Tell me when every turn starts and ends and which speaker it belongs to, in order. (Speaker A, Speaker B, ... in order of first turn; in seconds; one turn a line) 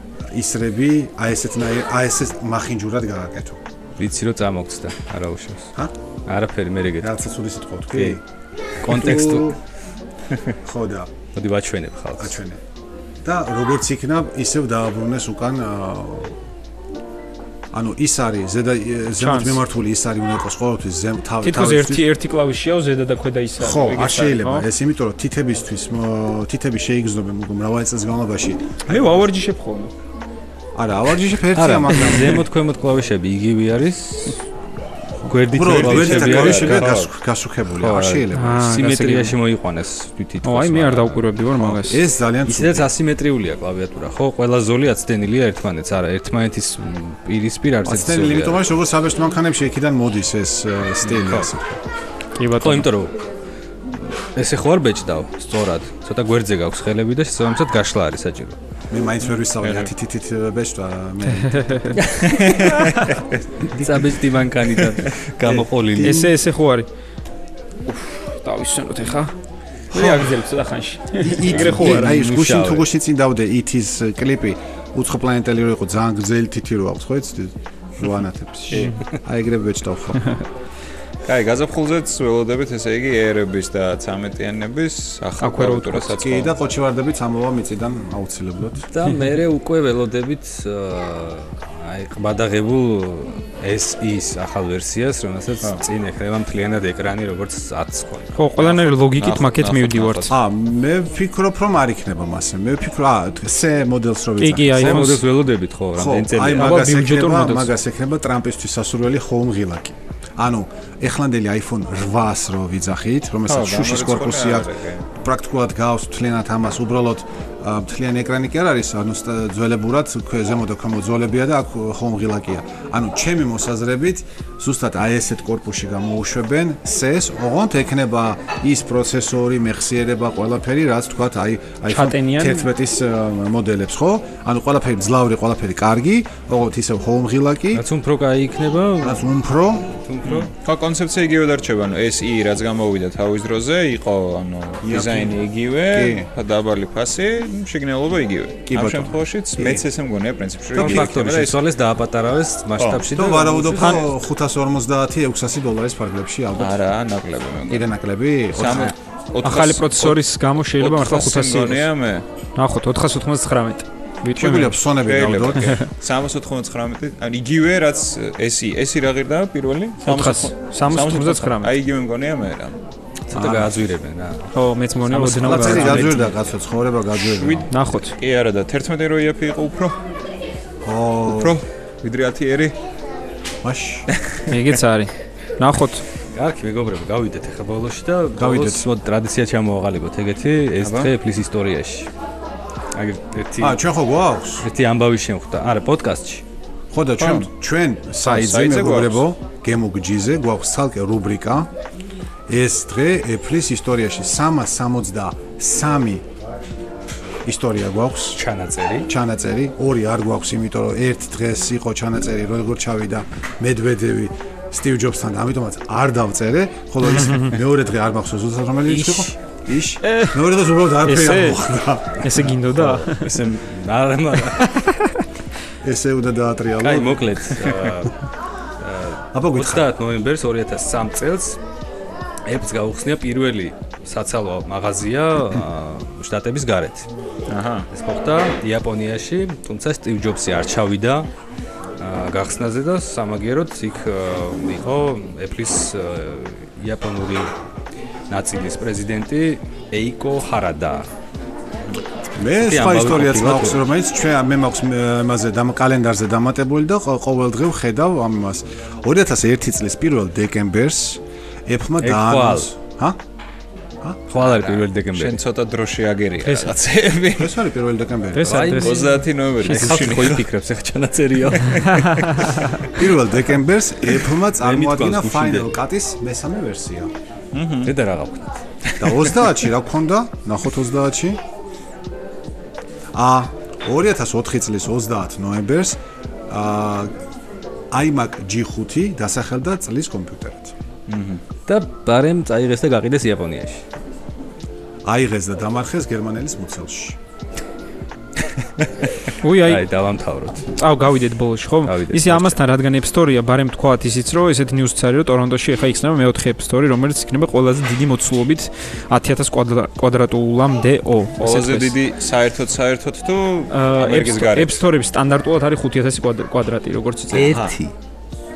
Speaker A: 0.2-3.6
Speaker B: 4.0-5.7
Speaker B: 6.3-7.1
Speaker A: 7.0-8.2
Speaker B: 7.9-8.2
Speaker B: 8.8-9.6
Speaker A: 8.8-9.6
Speaker A: 10.6-11.1
Speaker B: 11.3-12.4
Speaker A: 12.2-12.6
Speaker A: 13.2-16.4
Speaker A: 17.7-22.1
Speaker C: 19.1-19.6
Speaker C: 21.4-24.7
Speaker A: 23.6-28.9
Speaker C: 28.9-29.9
Speaker A: 30.7-32.5
Speaker B: 31.5-34.4
Speaker B: 35.2-37.0
Speaker A: 35.3-38.7
Speaker D: 35.6-37.1
Speaker B: 37.8-41.6
Speaker C: 38.3-39.3
Speaker C: 40.4-42.0
Speaker A: 41.6-42.9
Speaker B: 42.4-48.6
Speaker A: 47.8-51.8
Speaker B: 51.0-51.5
Speaker C: 52.4-52.9
Speaker B: 52.6-53.2
Speaker B: 53.9-58.6
Speaker A: 58.9-62.0
Speaker D: 59.6-59.9
Speaker C: 61.5-62.0
Speaker B: 62.0-62.8
Speaker D: 62.2-63.1
Speaker B: 63.7-66.3
Speaker D: 64.8-65.6
Speaker A: 65.9-66.3
Speaker C: 66.0-66.9
Speaker C: 67.9-69.3
Speaker C: 69.9-72.2
Speaker A: 71.2-80.4
Speaker B: 71.4-72.8
Speaker D: 78.7-79.0
Speaker C: 78.7-79.0
Speaker D: 81.2-86.5
Speaker C: 85.4-86.2
Speaker A: 86.2-88.9
Speaker B: 88.9-98.3
Speaker C: 98.3-100.3
Speaker D: 98.6-100.3
Speaker A: 100.3-105.1
Speaker C: 104.4-105.2
Speaker B: 104.8-106.8
Speaker A: 105.9-137.8
Speaker C: 106.5-107.7
Speaker D: 113.5-115.0
Speaker C: 131.9-132.7
Speaker B: 137.7-139.3
Speaker A: 139.0-139.9
Speaker B: 139.9-140.5
Speaker D: 140.2-151.6
Speaker A: 144.8-146.3
Speaker A: 148.7-149.8
Speaker B: 150.7-154.1
Speaker D: 152.8-153.1
Speaker A: 153.1-156.8
Speaker D: 156.5-157.9
Speaker A: 157.7-158.9
Speaker D: 158.5-162.2
Speaker B: 158.6-158.9
Speaker C: 159.4-161.9
Speaker C: 162.6-164.8
Speaker A: 164.3-165.7
Speaker D: 165.0-172.8
Speaker C: 165.5-165.9
Speaker C: 170.0-171.7
Speaker B: 173.3-174.5
Speaker A: 173.3-173.7
Speaker C: 174.5-176.1
Speaker B: 175.1-176.3
Speaker A: 175.4-177.7
Speaker D: 177.2-180.0
Speaker C: 177.7-178.2
Speaker A: 180.8-181.6
Speaker D: 181.2-182.7
Speaker A: 183.6-184.1
Speaker D: 184.2-184.7
Speaker C: 184.5-186.0
Speaker B: 186.3-192.1
Speaker A: 188.3-188.9
Speaker D: 190.8-191.1
Speaker B: 192.9-193.8
Speaker A: 193.6-194.7
Speaker B: 194.6-196.4
Speaker A: 196.9-201.7
Speaker D: 197.2-197.5
Speaker D: 198.2-199.2
Speaker A: 202.5-206.2
Speaker A: 207.4-208.4
Speaker B: 208.3-209.1
Speaker A: 209.1-222.3
Speaker C: 217.1-217.5
Speaker B: 218.9-219.3
Speaker C: 220.0-220.4
Speaker C: 221.0-221.6
Speaker C: 222.2-223.4
Speaker B: 222.6-224.9
Speaker C: 224.5-225.2
Speaker A: 225.8-227.2
Speaker B: 226.8-228.2
Speaker D: 227.5-228.0
Speaker B: 228.8-231.6
Speaker A: 229.3-229.8
Speaker B: 232.4-237.1
Speaker D: 237.5-237.9
Speaker B: 237.9-241.3
Speaker B: 242.0-247.5
Speaker B: 248.3-251.1
Speaker A: 252.3-263.2
Speaker B: 252.5-253.8
Speaker B: 262.0-262.7
Speaker B: 264.3-265.4
Speaker D: 264.4-267.6
Speaker C: 266.4-266.8
Speaker A: 267.4-268.8
Speaker C: 268.3-269.2
Speaker B: 268.5-272.9
Speaker D: 268.7-270.5
Speaker A: 272.9-277.1
Speaker B: 274.2-275.7
Speaker D: 277.5-277.9
Speaker B: 277.8-279.4
Speaker A: 279.0-281.4
Speaker A: 283.1-287.1
Speaker A: 287.9-290.7
Speaker D: 291.1-291.4
Speaker B: 291.7-293.8
Speaker A: 295.1-297.2
Speaker C: 299.4-299.8
Speaker B: 299.6-300.7
Speaker C: 300.7-312.0
Speaker B: 301.8-302.6
Speaker D: 311.4-314.8
Speaker C: 313.7-317.6
Speaker B: 317.3-317.9
Speaker D: 317.5-317.8